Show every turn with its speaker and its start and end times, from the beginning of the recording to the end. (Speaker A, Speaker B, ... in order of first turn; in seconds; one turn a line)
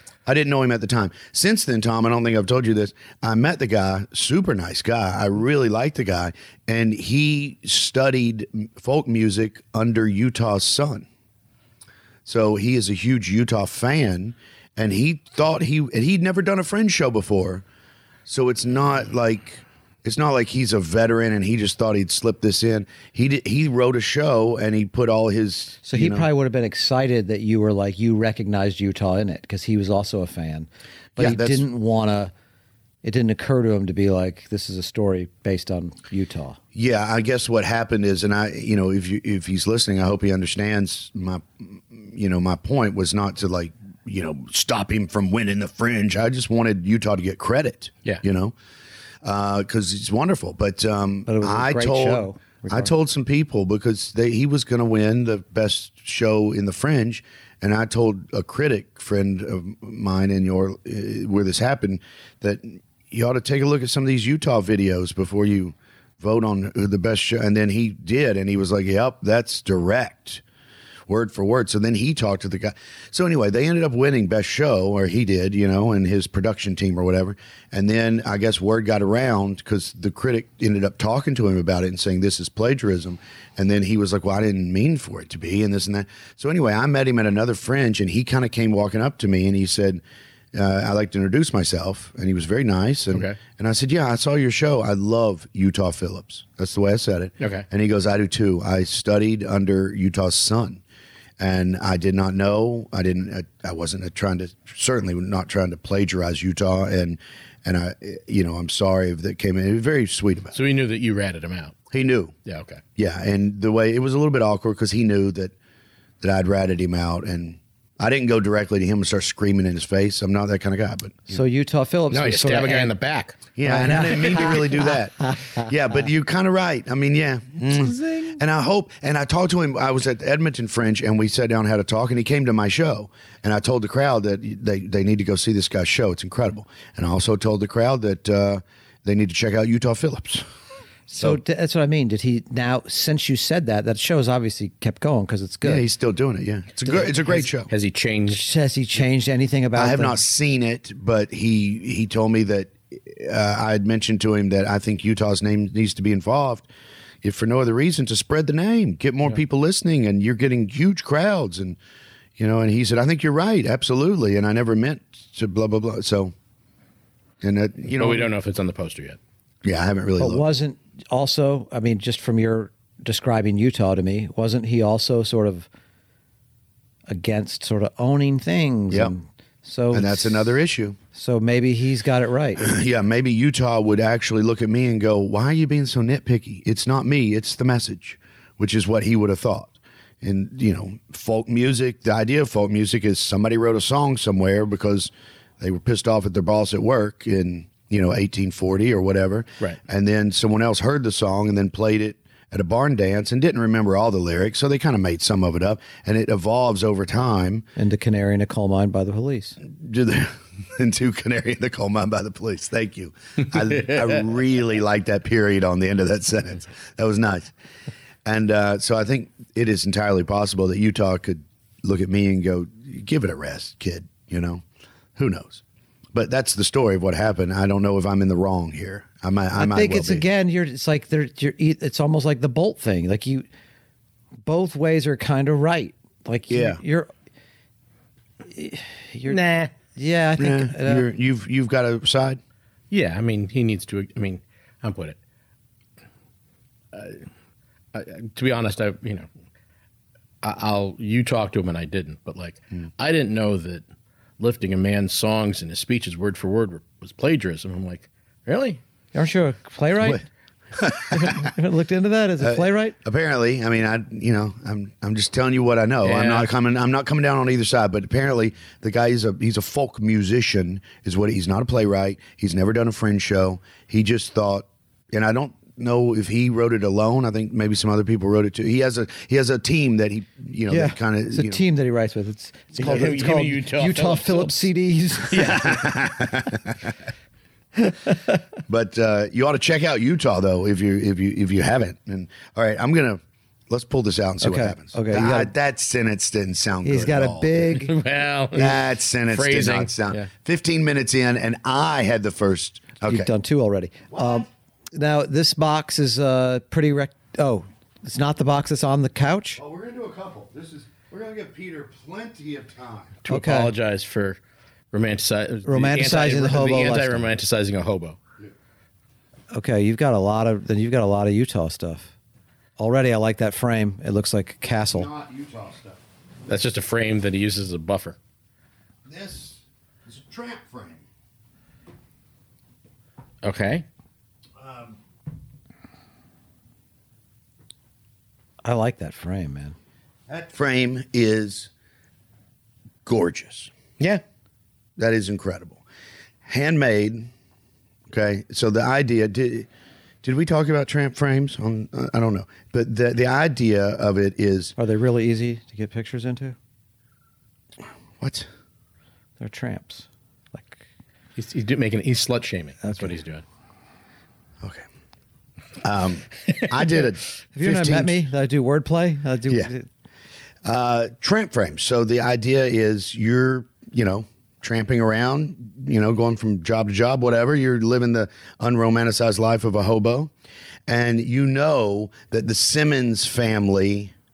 Speaker A: 0.3-11.1
Speaker A: 12.2-17.6
Speaker A: 18.3-26.3
Speaker B: 25.8-32.3
Speaker A: 31.2-31.7
Speaker B: 33.0-36.6
Speaker A: 36.8-48.5
Speaker A: 49.2-70.4
Speaker B: 51.3-52.9
Speaker A: 71.1-90.0
Speaker A: 90.5-100.8
Speaker C: 93.1-93.4
Speaker C: 97.4-97.7
Speaker A: 101.4-110.5
Speaker C: 110.5-111.8
Speaker A: 111.9-112.3
Speaker C: 112.5-112.8
Speaker A: 113.0-115.5
Speaker A: 116.2-121.4
Speaker B: 121.3-122.9
Speaker C: 122.1-123.4
Speaker A: 123.5-140.4
Speaker B: 123.6-124.9
Speaker B: 127.9-128.4
Speaker B: 141.1-145.8
Speaker A: 145.6-147.7
Speaker B: 146.9-147.4
Speaker C: 147.7-148.4
Speaker B: 148.3-150.2
Speaker A: 149.8-156.7
Speaker A: 157.2-161.8
Speaker A: 162.4-166.3
Speaker A: 167.4-168.3
Speaker C: 168.0-169.2
Speaker A: 169.6-170.5
Speaker B: 170.2-175.7
Speaker B: 177.1-180.5
Speaker A: 179.9-181.0
Speaker B: 181.1-182.7
Speaker A: 182.6-207.7
Speaker B: 207.8-209.6
Speaker A: 209.6-217.5
Speaker A: 218.2-224.6
Speaker A: 225.2-225.6
Speaker A: 226.1-230.3
Speaker B: 229.6-233.5
Speaker B: 234.4-237.1
Speaker A: 236.5-236.8
Speaker B: 238.4-239.4
Speaker C: 239.3-239.7
Speaker B: 239.9-241.1
Speaker A: 240.4-242.4
Speaker C: 242.9-245.2
Speaker C: 246.9-247.3
Speaker C: 247.9-249.3
Speaker C: 250.4-253.8
Speaker C: 254.4-258.8
Speaker B: 259.1-260.2
Speaker A: 260.8-261.5
Speaker B: 261.1-262.9
Speaker A: 262.4-281.6
Speaker C: 266.0-266.5
Speaker B: 280.7-285.7
Speaker C: 282.8-284.7
Speaker C: 285.3-285.8
Speaker A: 285.4-286.9
Speaker B: 287.8-288.4
Speaker A: 288.7-297.7
Speaker B: 294.4-295.5
Speaker B: 296.8-298.0
Speaker C: 297.8-300.3
Speaker A: 298.5-303.3
Speaker B: 303.1-309.6
Speaker A: 304.1-304.5
Speaker A: 309.6-313.2
Speaker C: 313.2-314.4
Speaker B: 313.3-313.7
Speaker C: 314.9-318.2
Speaker B: 315.7-317.3
Speaker B: 319.5-322.1
Speaker B: 322.8-325.1
Speaker A: 324.9-326.0
Speaker C: 326.5-328.2
Speaker A: 329.1-331.0
Speaker C: 333.4-333.9
Speaker A: 334.6-335.0
Speaker B: 338.6-339.8
Speaker A: 340.3-341.7
Speaker A: 343.1-343.7
Speaker A: 345.0-345.8
Speaker A: 346.4-347.3
Speaker A: 348.1-349.7
Speaker A: 350.2-354.7
Speaker B: 354.8-356.6
Speaker A: 358.2-358.5
Speaker B: 359.4-360.8
Speaker C: 361.4-363.4
Speaker B: 362.8-363.2
Speaker A: 365.8-368.2
Speaker B: 367.6-369.9
Speaker A: 370.6-380.3
Speaker A: 380.9-384.1